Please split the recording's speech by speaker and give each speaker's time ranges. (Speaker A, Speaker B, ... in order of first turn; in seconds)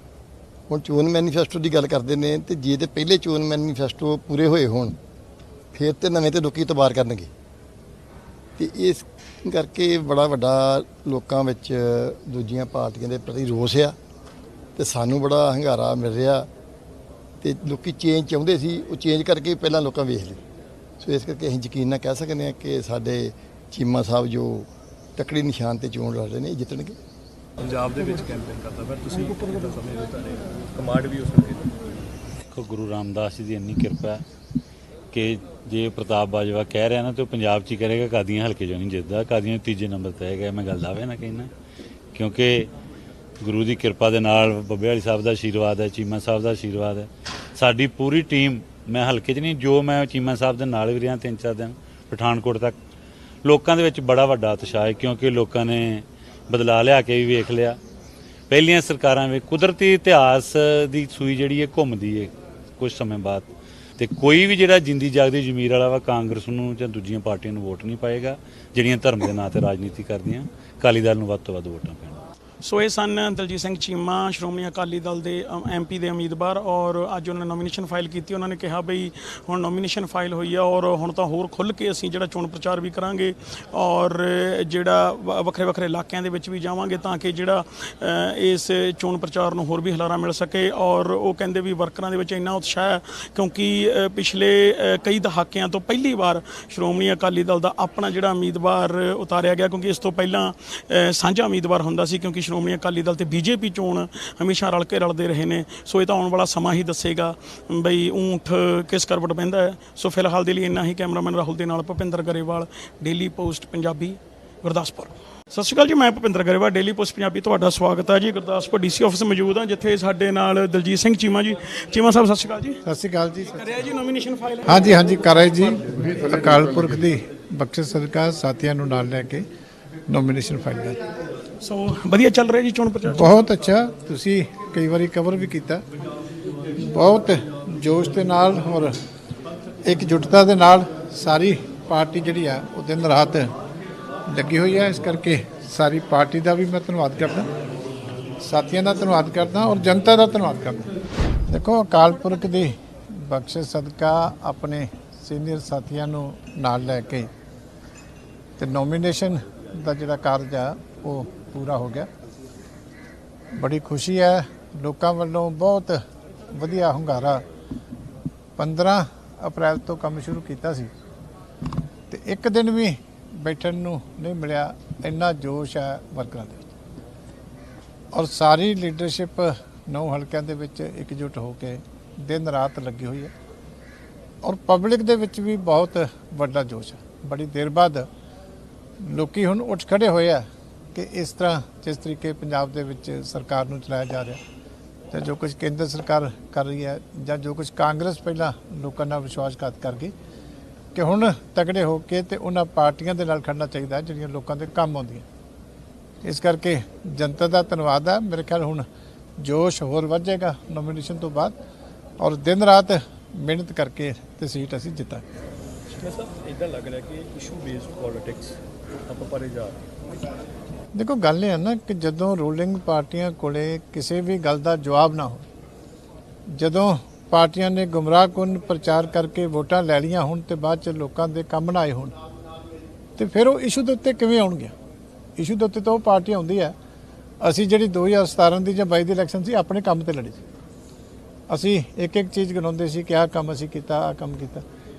Speaker A: 0.7-5.0, 5.7-7.3, 8.6-13.9, 14.8-16.5, 17.4-20.4, 21.0-26.9
Speaker B: 27.6-31.7, 215.9-219.9
Speaker C: 32.5-34.2, 35.1-41.5, 42.1-42.7, 43.4-52.7, 53.4-57.8, 58.5-72.2
Speaker D: 72.6-122.8, 123.5-125.0, 131.6-133.3
Speaker E: 122.8-123.7, 124.6-129.4, 130.1-131.0, 133.1-135.8, 136.8-138.9, 139.8-143.5, 144.3-147.5, 148.4-150.9, 151.5-157.3, 158.6-162.1, 163.5-167.4, 168.6-170.9, 172.1-176.7, 178.1-183.3, 184.4-188.1, 189.0-194.4, 195.1-200.1, 200.9-205.2, 206.2-208.8, 209.4-211.6, 212.2-215.2, 220.9-225.4, 226.5-232.1, 233.2-234.7, 235.4-236.7, 237.4-240.4, 241.5-244.6